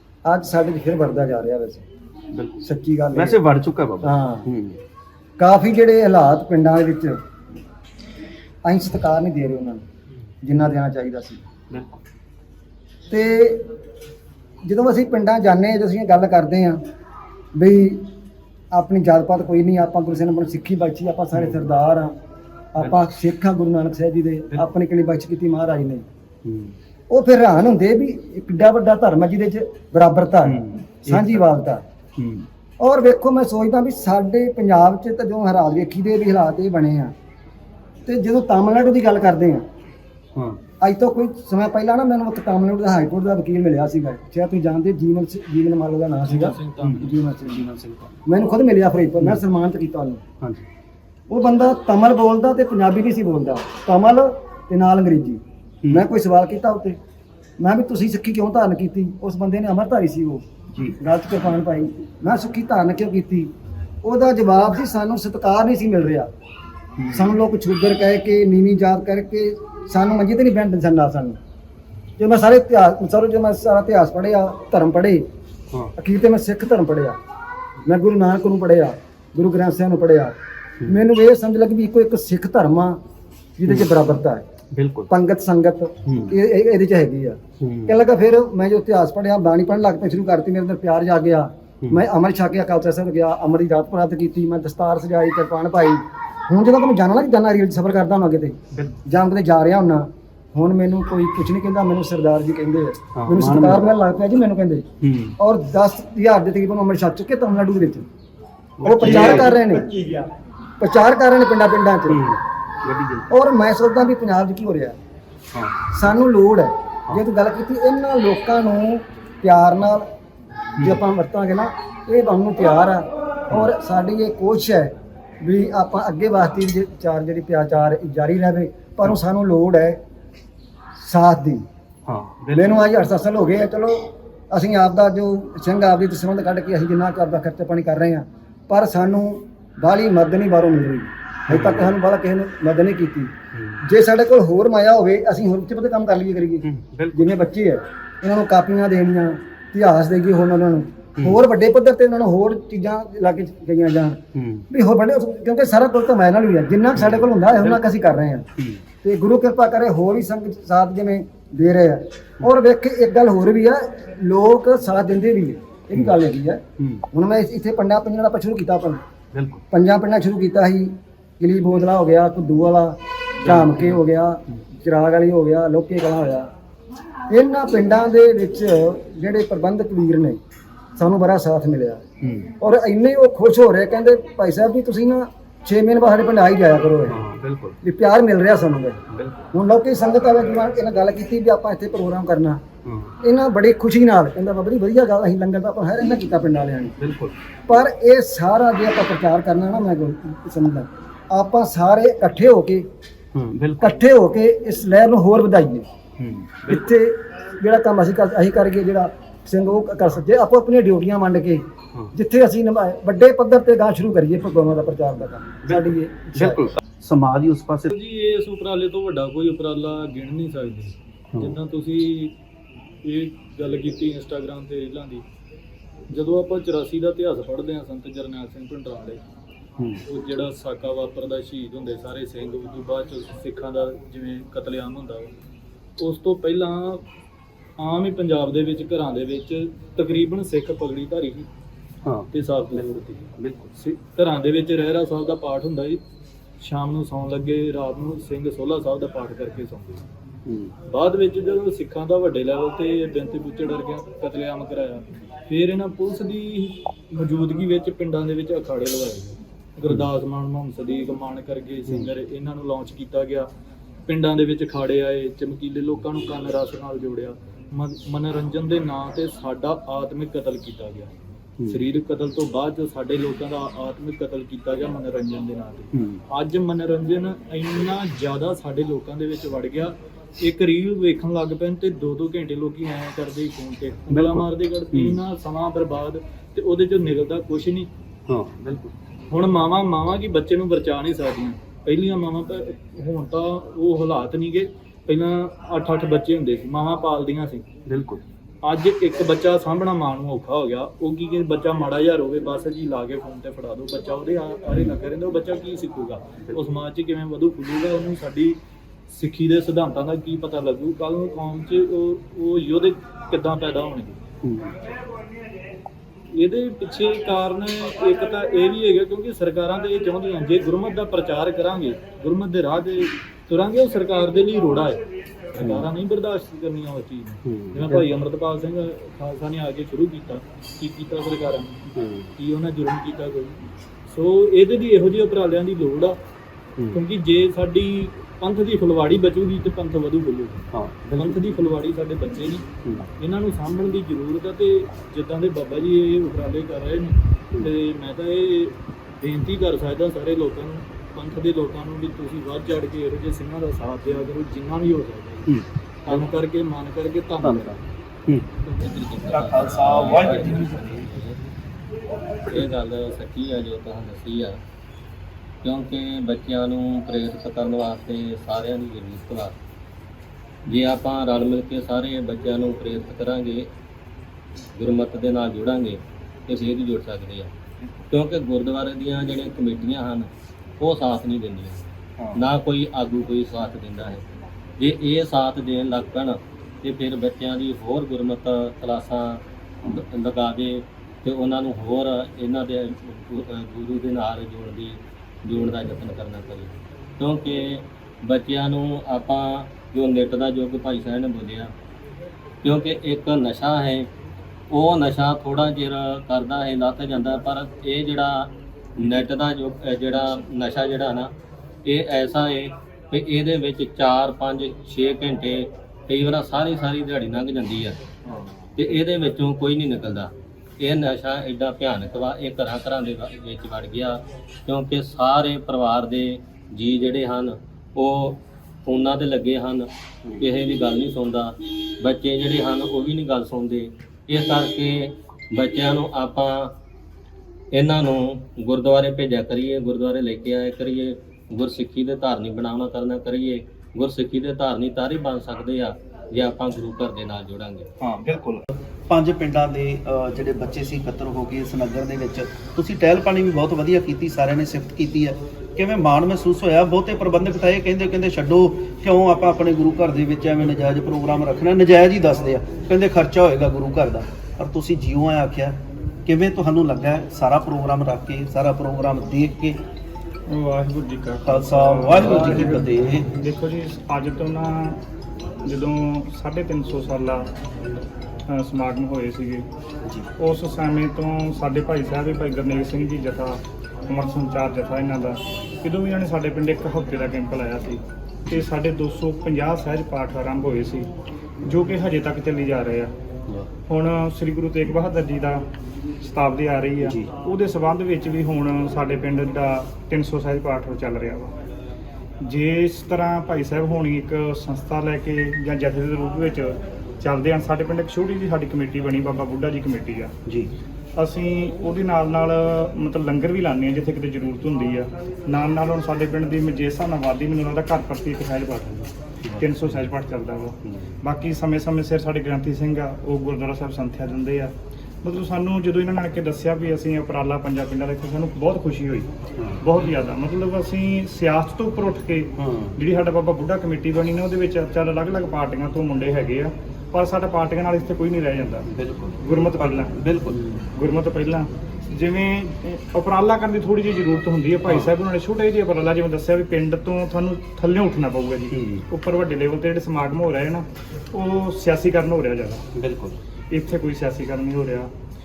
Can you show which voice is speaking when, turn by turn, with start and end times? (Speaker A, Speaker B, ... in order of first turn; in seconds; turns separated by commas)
Speaker A: 0.2-1.8, Speaker B: 2.3-4.8, Speaker A: 2.6-3.4, Speaker A: 4.0-4.5, Speaker A: 5.4-7.1, Speaker A: 8.6-9.8, Speaker A: 10.4-11.4, Speaker B: 11.7-12.0, Speaker A: 13.1-13.6, Speaker A: 14.7-16.8, Speaker A: 17.6-18.1, Speaker A: 18.7-22.1, Speaker B: 21.3-21.6, Speaker A: 22.7-26.0, Speaker B: 26.4-26.8, Speaker A: 27.1-31.8, Speaker B: 30.4-31.6, Speaker B: 32.2-32.5, Speaker A: 32.8-37.1, Speaker A: 38.0-39.6, Speaker B: 40.3-40.6, Speaker A: 40.8-47.7, Speaker C: 46.2-47.1, Speaker B: 46.8-48.1, Speaker A: 48.2-50.2, Speaker B: 50.4-50.7, Speaker A: 51.3-57.0, Speaker A: 57.6-60.4, Speaker A: 61.0-63.5, Speaker A: 64.0-66.3, Speaker B: 67.0-67.3, Speaker A: 67.1-71.4, Speaker A: 72.2-75.2, Speaker A: 76.0-77.2, Speaker A: 77.8-80.3, Speaker A: 80.9-83.0, Speaker A: 83.6-84.5, Speaker B: 84.7-85.1, Speaker A: 85.1-104.8, Speaker B: 86.0-86.3, Speaker B: 87.6-88.0, Speaker B: 103.1-103.8, Speaker B: 105.0-105.4, Speaker A: 105.4-108.1, Speaker B: 108.8-109.5, Speaker A: 108.8-109.9, Speaker D: 109.9-110.3, Speaker A: 110.8-112.3, Speaker B: 112.1-113.3, Speaker A: 113.3-115.0, Speaker B: 115.5-115.9, Speaker A: 115.9-120.1, Speaker A: 120.8-130.0, Speaker A: 131.0-131.6, Speaker B: 132.1-132.8, Speaker A: 132.5-158.5, Speaker B: 141.5-141.9, Speaker B: 143.5-143.8, Speaker B: 146.6-147.3, Speaker B: 154.3-154.7, Speaker B: 157.0-157.8, Speaker B: 158.6-158.8, Speaker A: 159.0-169.0, Speaker B: 166.8-167.1, Speaker B: 169.3-169.6, Speaker A: 169.7-176.5, Speaker B: 173.4-174.6, Speaker A: 177.3-180.4, Speaker A: 181.0-182.0, Speaker B: 182.2-182.5, Speaker A: 182.6-187.2, Speaker B: 187.1-187.8, Speaker A: 187.8-189.0, Speaker B: 189.1-189.4, Speaker A: 189.5-192.6, Speaker B: 192.8-193.2, Speaker A: 193.2-196.9, Speaker B: 197.0-197.3, Speaker A: 197.7-202.8, Speaker B: 203.3-204.0, Speaker A: 203.8-205.9, Speaker B: 206.2-206.8, Speaker A: 206.7-216.7, Speaker B: 215.6-217.9, Speaker C: 217.9-222.3, Speaker B: 221.3-221.6, Speaker C: 223.0-225.2, Speaker C: 226.1-229.2, Speaker C: 230.1-235.3, Speaker C: 236.0-237.0, Speaker C: 237.8-241.5, Speaker B: 242.0-243.7, Speaker C: 242.3-243.2, Speaker C: 243.8-246.0, Speaker C: 246.6-250.0, Speaker B: 250.4-250.7, Speaker C: 250.9-263.5, Speaker B: 261.9-262.1, Speaker C: 264.1-271.1, Speaker B: 271.6-271.9, Speaker C: 271.7-287.9, Speaker B: 275.9-276.2, Speaker B: 284.1-285.2, Speaker B: 288.3-288.9, Speaker C: 289.3-297.6, Speaker B: 297.9-298.2, Speaker C: 298.6-308.6, Speaker B: 304.7-305.0, Speaker B: 306.4-306.7, Speaker C: 309.1-314.2, Speaker B: 314.4-314.8, Speaker C: 316.3-325.0, Speaker C: 325.5-336.2, Speaker B: 325.6-325.9, Speaker B: 327.4-328.2, Speaker B: 331.9-332.3, Speaker B: 336.8-337.0, Speaker C: 336.9-342.6, Speaker B: 340.7-341.6, Speaker B: 342.8-343.1, Speaker C: 343.2-355.5, Speaker B: 355.5-356.3, Speaker C: 356.1-357.8, Speaker B: 357.4-358.5, Speaker E: 358.7-361.4, Speaker B: 359.3-361.1, Speaker E: 362.5-364.6, Speaker E: 365.6-369.5, Speaker E: 370.7-373.6, Speaker E: 374.8-377.5, Speaker B: 377.8-378.1, Speaker E: 378.1-381.8, Speaker B: 382.2-382.5, Speaker E: 382.4-384.2, Speaker E: 384.8-401.7, Speaker E: 402.6-404.1, Speaker E: 404.7-411.3, Speaker B: 409.0-409.2, Speaker E: 411.8-418.0, Speaker B: 418.2-419.0, Speaker E: 418.8-429.9, Speaker E: 430.4-436.7, Speaker E: 437.7-447.9, Speaker B: 448.0-469.8, Speaker D: 470.5-475.0, Speaker B: 471.4-473.3, Speaker D: 475.6-477.5, Speaker D: 478.5-479.6, Speaker D: 480.4-491.1, Speaker D: 491.6-493.1, Speaker D: 493.9-495.6, Speaker D: 496.2-501.5, Speaker B: 497.0-497.3, Speaker D: 502.4-510.3, Speaker B: 510.4-510.7, Speaker D: 511.2-524.7, Speaker B: 519.4-520.1, Speaker B: 520.8-521.1, Speaker D: 525.2-529.3, Speaker B: 529.5-530.1, Speaker D: 529.8-538.9, Speaker B: 532.6-533.0, Speaker B: 538.9-540.8, Speaker D: 539.4-552.8, Speaker B: 544.8-545.1, Speaker B: 548.7-549.0, Speaker B: 552.9-553.4, Speaker D: 553.7-555.1